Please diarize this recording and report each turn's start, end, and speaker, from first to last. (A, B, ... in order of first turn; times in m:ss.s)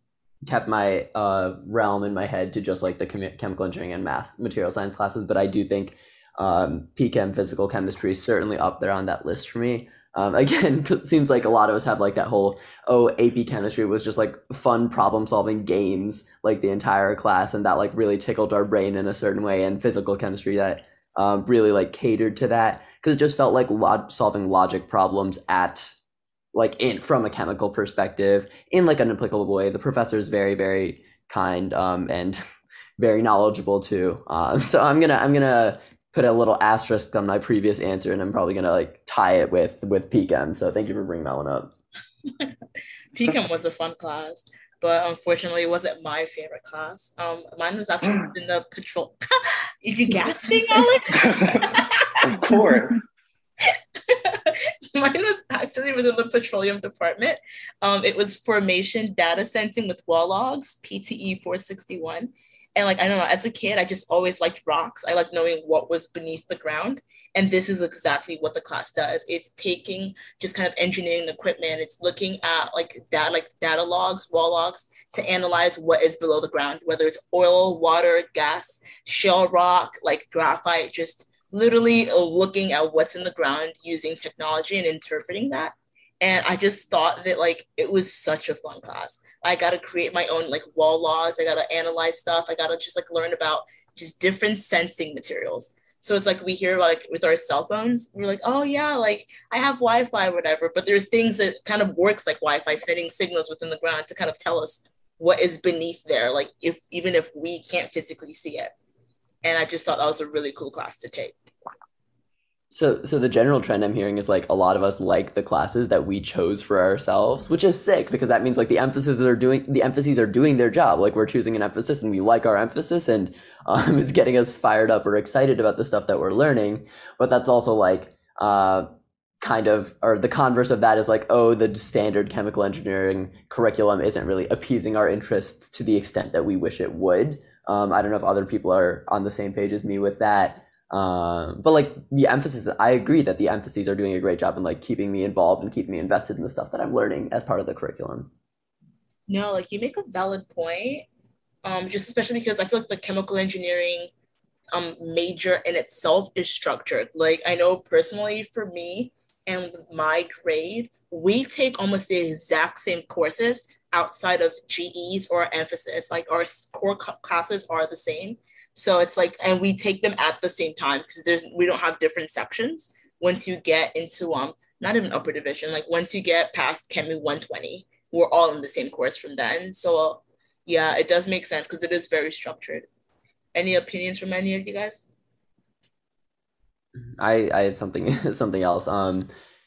0:00.5-0:26.0 A
0:26.5-0:32.4 A
0:33.0-0:41.7 A
0:43.1-0:49.2 B
0:48.0-0:48.3 C
0:49.8-0:52.1 B
0:51.1-0:53.0 C
0:54.1-1:48.7 B
1:49.4-1:51.4 B
1:52.7-2:28.3 A
2:29.3-2:31.1 B
2:31.6-2:34.1 B
2:34.7-3:02.9 B
3:03.6-3:05.0 B
3:07.2-3:09.3 A